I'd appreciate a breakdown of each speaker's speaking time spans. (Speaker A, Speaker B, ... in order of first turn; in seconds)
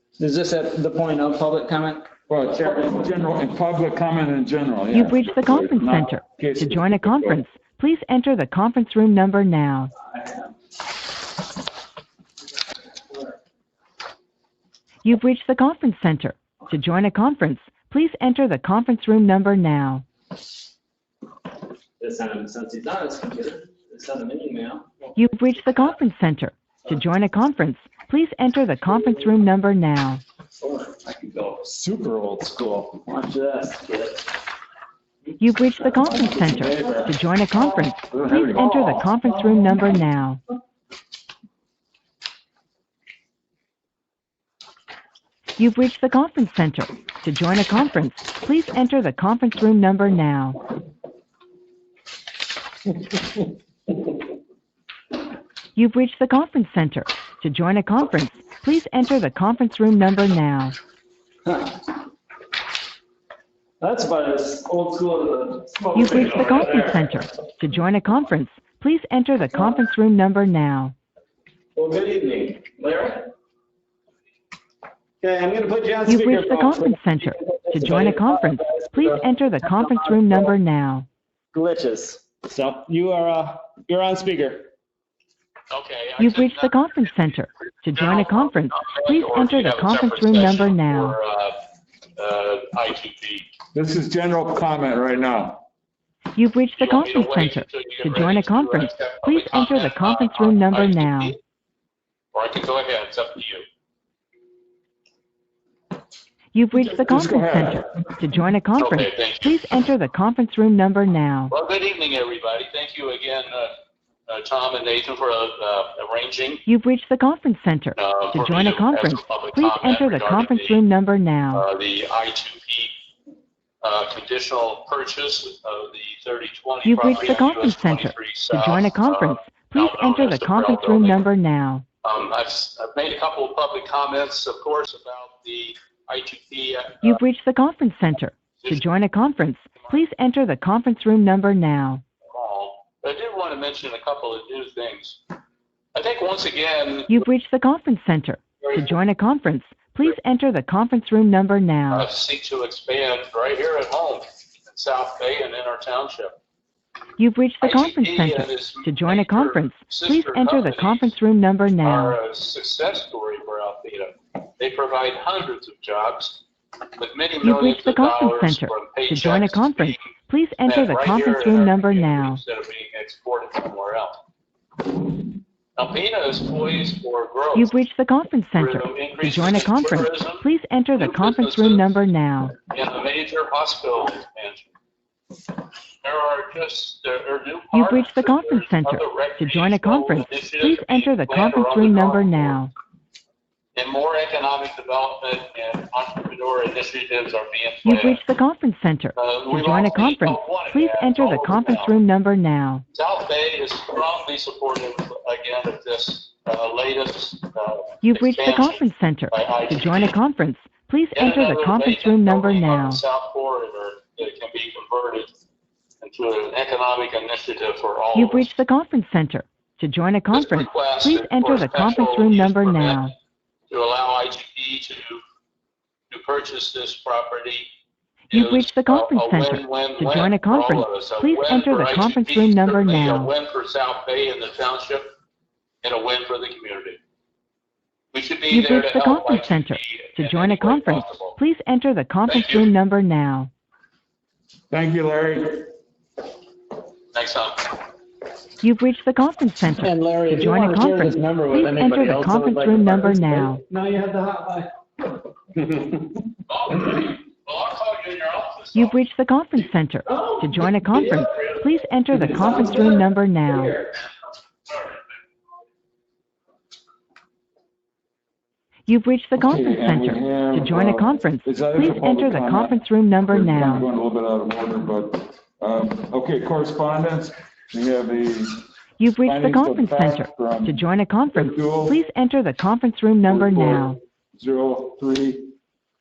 Speaker A: 0.2-2.1, 10.0-10.5, 22.0-25.2, 30.6-32.0, 32.9-34.3, 35.6-37.2, 38.2-39.6, 63.8-67.1, 71.8-73.3, 75.2-80.5, 81.5-84.7, 249.8-254.7, 260.1-261.3, 262.1-263.9
Speaker B: 2.3-7.5, 38.2-38.7, 93.7-95.6, 106.9-107.9, 244.7-245.7, 269.4-278.7, 279.2-282.0, 283.3-285.5
Speaker C: 4.9-9.9, 15.0-20.0, 25.1-30.2, 35.4-40.4, 45.6-50.6, 55.8-60.8, 65.9-70.9, 76.0-81.1, 86.2-91.2, 96.3-101.3, 106.5-111.5, 116.7-121.6, 126.8-131.8, 137.0-142.0, 147.1-152.1, 157.2-162.2, 167.4-172.4, 177.5-182.6, 187.7-192.7, 197.8-202.8, 208.0-213.0, 218.1-223.1, 228.3-233.3, 238.5-243.5, 248.6-253.6, 258.7-263.8, 268.9-273.9, 279.0-284.0
Speaker D: 85.7-91.6, 92.2-93.5, 96.8-101.4, 102.3-103.6, 108.8-109.7, 111.5-113.7, 114.3-116.6, 118.0-120.8, 121.5-122.9, 123.8-131.2, 132.0-137.2, 142.2-145.2, 145.9-147.2, 148.6-148.9, 151.9-156.4, 157.6-161.1, 161.8-166.4, 167.0-170.1, 170.6-174.2, 175.8-177.7, 178.5-180.4, 180.9-181.8, 182.6-184.7, 186.0-192.6, 193.7-198.2, 199.2-202.0, 202.9-210.1, 211.2-215.3, 216.0-218.5, 220.3-223.1, 223.7-225.2, 226.1-227.7, 228.3-235.1, 235.8-237.0, 238.1-241.4, 242.3-242.7, 247.1-247.8, 256.5-259.0, 260.9-261.7, 264.7-265.0